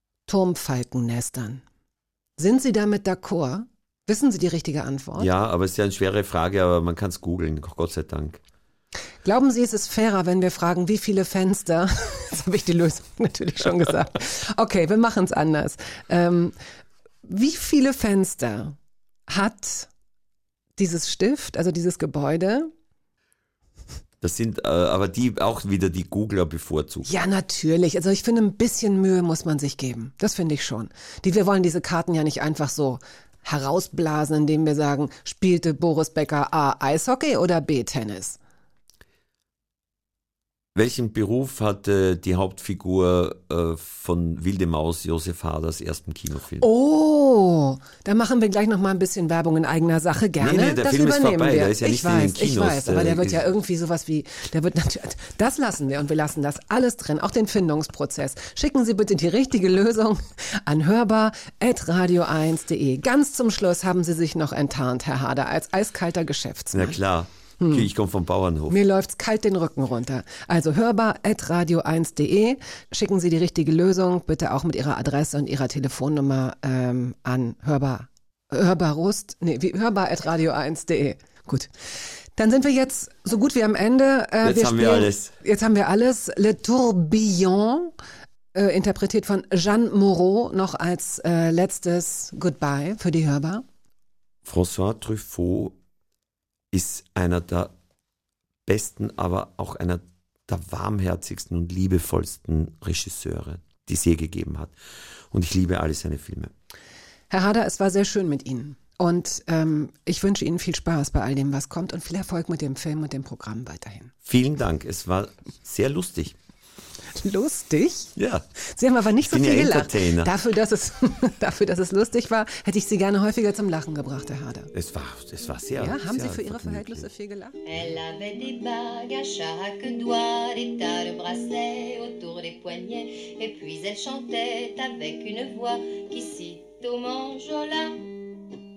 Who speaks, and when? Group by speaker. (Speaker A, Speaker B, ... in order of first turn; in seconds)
Speaker A: 0.3-1.6, 2.4-5.3, 9.2-16.5, 17.2-18.8, 19.3-19.9, 20.8-22.7, 27.0-38.4, 46.6-67.0, 67.6-67.9, 68.7-81.7, 82.3-87.9, 88.5-93.6, 107.3-114.1, 117.1-124.7, 125.8-127.6
Speaker B: 5.2-8.4, 24.2-27.1, 40.7-46.6, 50.4-53.5, 66.7-68.8, 84.4-85.3, 94.4-95.7, 96.7-97.7, 98.7-104.7, 105.3-106.5, 114.2-116.3, 118.2-118.5, 119.2-120.3, 124.7-127.1
Speaker C: 127.7-138.1